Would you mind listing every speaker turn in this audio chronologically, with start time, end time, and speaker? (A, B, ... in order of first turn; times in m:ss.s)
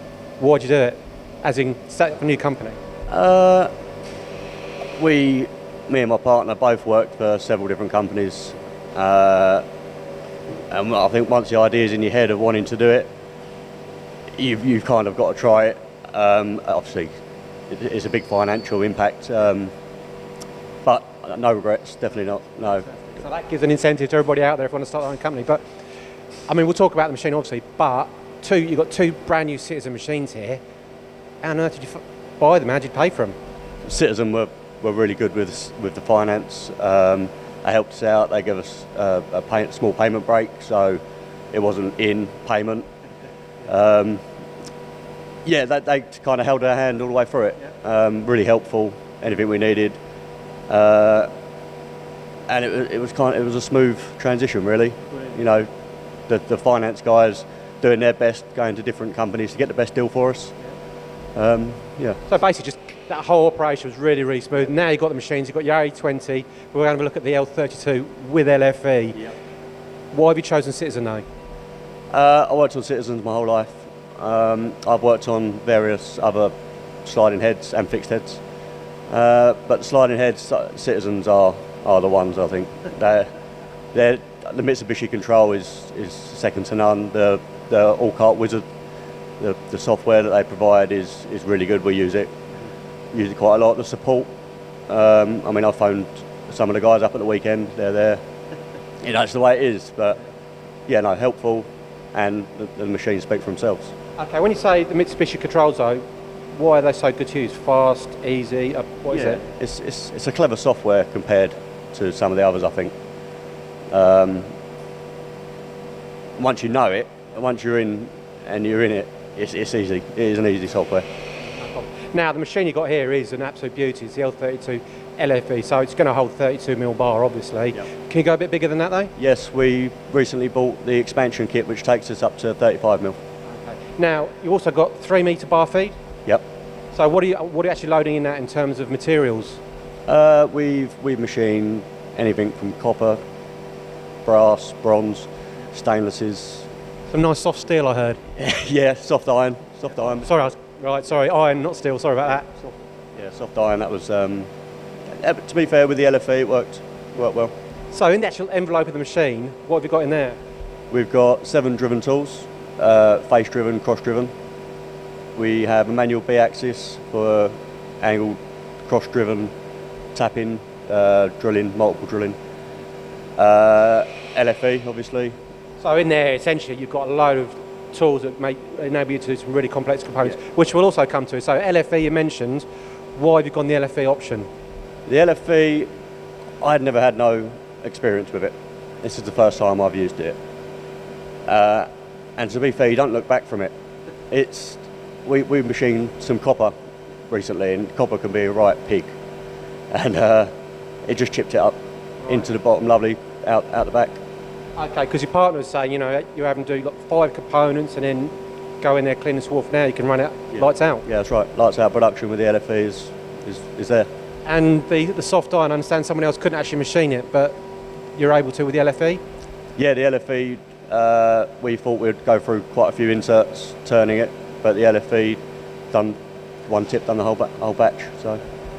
0:00.4-0:02.8 A
0:03.1-0:03.7 B
0:05.0-0:09.6 B
0:10.7-0:13.1 B
0:14.4-0:17.1 B
0:17.7-0:19.7 B
0:20.8-0:22.9 B
0:23.1-0:25.6 A
0:26.5-0:30.6 A
0:31.4-0:33.3 A
0:33.8-0:41.0 B
0:41.5-0:42.9 B
0:43.6-0:44.2 B
0:45.4-0:50.0 B
0:50.7-0:51.3 B
0:52.5-0:55.7 B
0:56.3-1:00.5 B
1:01.3-1:02.2 B
1:02.3-1:09.3 A
1:10.1-1:11.2 A
1:12.1-1:16.5 B
1:17.0-1:18.4 B
1:19.1-1:23.3 B
1:23.9-1:28.6 B
1:29.4-1:32.3 B
1:33.1-1:34.3 B
1:34.9-1:38.2 B
1:39.0-1:40.2 B
1:40.9-1:43.9 B
1:44.2-1:46.0 A
1:46.5-1:49.4 A
1:49.1-1:52.9 B
1:53.9-1:54.5 B
1:56.4-2:01.0 B
2:01.4-2:09.1 A
2:09.2-2:13.2 B
2:13.5-2:16.0 A
2:16.9-2:19.6 A
2:20.1-2:23.2 B
2:24.2-2:26.7 B
2:27.1-2:28.2 A
2:28.4-2:30.4 B
2:30.2-2:32.7 A
2:33.2-2:34.5 B
2:35.1-2:37.5 B
2:37.9-2:40.4 A
2:40.9-2:44.3 B
2:45.3-2:49.5 B
2:50.1-2:52.4 B
2:53.4-2:55.3 B
2:55.8-3:04.5 A
3:05.1-3:05.9 B
3:06.6-3:10.4 B
3:11.5-3:13.7 B
3:14.3-3:16.7 B
3:17.3-3:19.1 B
3:19.9-3:20.5 B
3:21.0-3:24.2 B
3:24.8-3:31.0 A
3:30.5-3:34.1 B
3:34.4-3:37.5 A
3:38.1-3:39.2 A
3:39.8-3:45.4 B
3:45.9-3:48.4 B